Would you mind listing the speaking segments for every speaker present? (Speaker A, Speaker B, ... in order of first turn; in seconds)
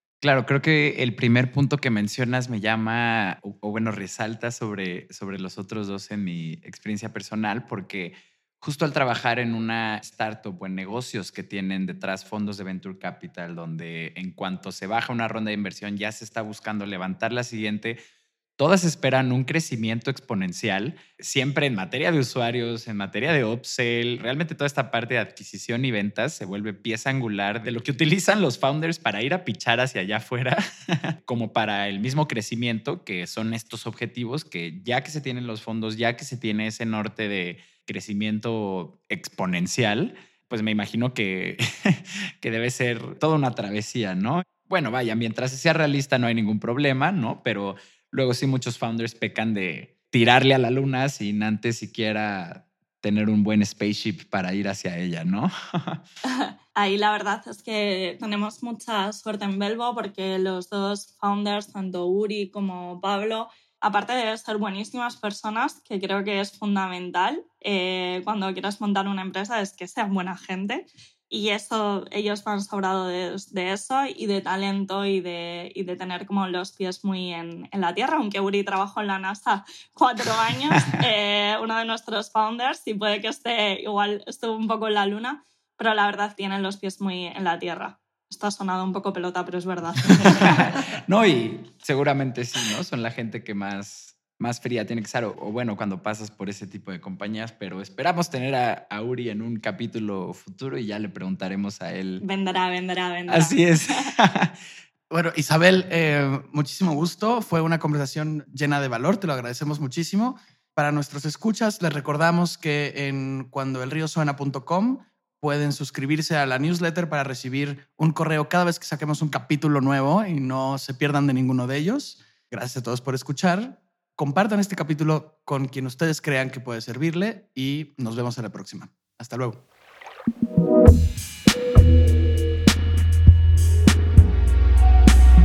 Speaker A: 0.2-18.0, 18.6-56.0, 90.1-102.2, 103.3-104.6
Speaker B: 56.3-90.8, 102.2-104.1
Speaker C: 105.1-129.6